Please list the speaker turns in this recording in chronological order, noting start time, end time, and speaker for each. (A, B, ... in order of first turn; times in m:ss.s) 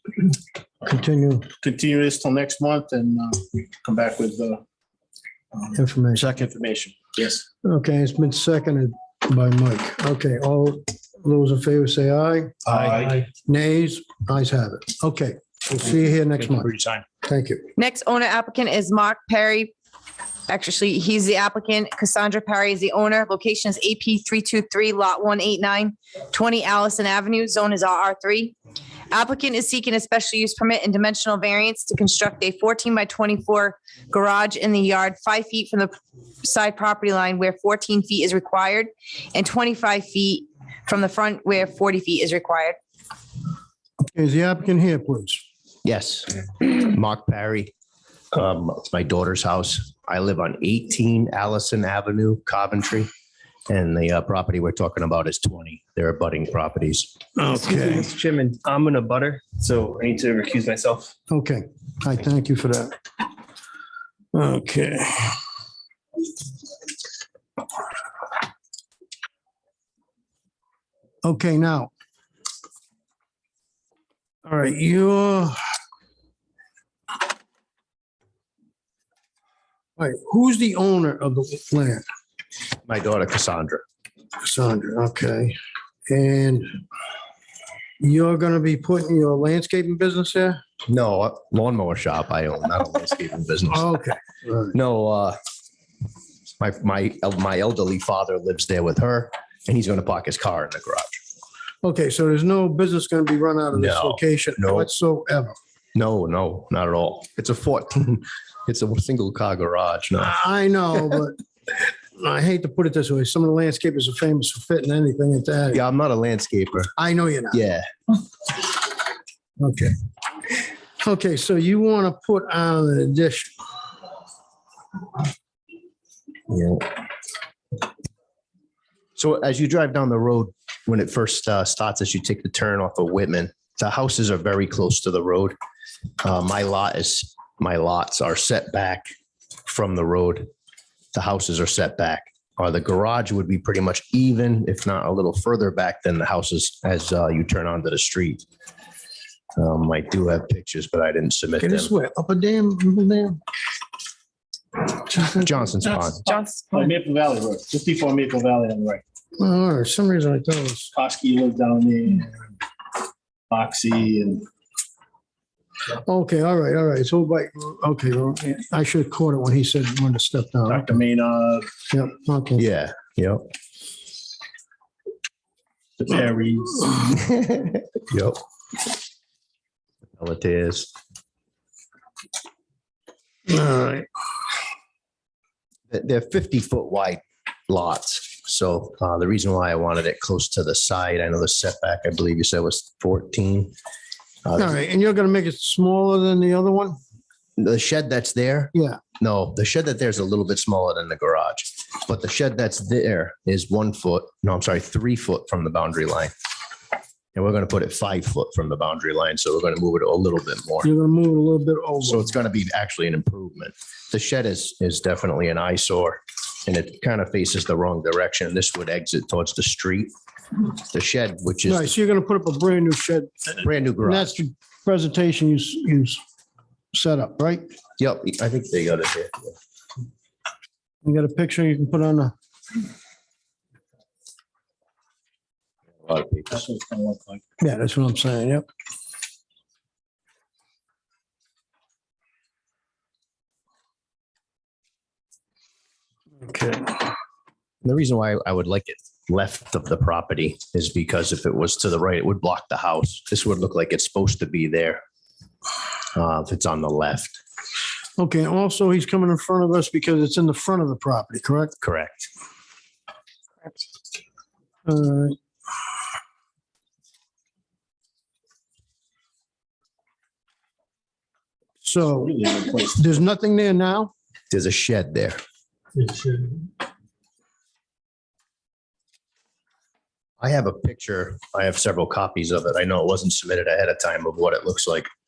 0:00.8-0:01.4 A
0:01.6-0:04.6 B
0:05.5-0:07.4 B
0:05.8-0:06.2 A
0:07.6-0:12.6 A
0:12.7-0:13.3 C
0:12.7-0:13.2 B
0:13.3-0:17.7 A
0:16.4-0:17.0 C
0:17.8-0:19.7 D
0:20.5-0:28.5 D
0:29.1-0:42.8 D
0:44.0-0:45.4 A
0:45.8-0:47.7 E
0:48.3-0:53.1 E
0:53.7-0:57.1 E
0:57.4-0:58.1 A
0:57.5-1:01.1 C
1:01.3-1:02.9 A
1:04.3-1:05.4 A
1:11.2-1:11.9 A
1:14.4-1:15.6 A
1:20.0-1:22.0 A
1:22.8-1:23.8 E
1:24.4-1:25.6 A
1:26.1-1:26.6 A
1:28.0-1:30.6 A
1:30.9-1:33.9 E
1:33.7-1:34.7 A
1:34.7-1:35.4 E
1:36.6-1:41.2 E
1:41.8-1:45.6 A
1:43.7-1:44.9 E
1:45.9-1:50.4 E
1:50.2-1:55.8 A
1:55.7-1:56.9 E
1:57.0-1:57.6 A
1:57.5-1:57.8 E
1:59.6-1:59.9 A
2:01.0-2:03.5 A
2:06.5-2:07.0 E
2:09.2-2:15.6 E
2:16.2-2:19.1 E
2:19.6-2:20.5 E
2:21.1-2:28.4 E
2:29.6-2:31.9 E
2:31.6-2:33.4 A
2:35.3-2:36.2 E
2:36.2-2:36.6 D
2:36.7-2:39.0 B
2:39.4-2:40.9 A
2:40.9-2:42.4 B
2:43.5-2:44.4 B
2:46.0-2:51.0 A
2:50.7-2:51.7 B
2:51.9-2:52.6 A
2:52.6-2:53.5 E
2:56.0-2:57.2 B
2:57.4-2:58.4 E
3:00.2-3:00.9 E
3:03.5-3:04.0 A
3:05.9-3:13.7 E
3:14.4-3:14.8 E
3:14.6-3:17.0 A
3:17.6-3:26.3 E
3:18.7-3:19.0 A
3:27.3-3:30.9 E
3:30.8-3:32.2 A
3:32.0-3:41.9 E
3:41.7-3:46.2 A
3:43.6-3:44.3 E
3:46.9-3:47.7 A
3:48.0-3:49.5 E
3:51.0-3:52.3 A
3:56.0-3:56.6 E
3:56.5-3:57.4 B
3:57.6-3:58.6 A
4:06.4-4:06.9 A
4:07.8-4:15.0 E
4:16.1-4:17.4 E
4:18.2-4:21.7 A
4:21.8-4:22.3 E
4:24.8-4:25.4 A
4:31.8-4:32.3 A
4:32.1-4:33.0 B
4:32.9-4:34.1 A
4:34.5-4:35.4 E
4:36.0-4:36.6 B
4:40.4-4:45.1 E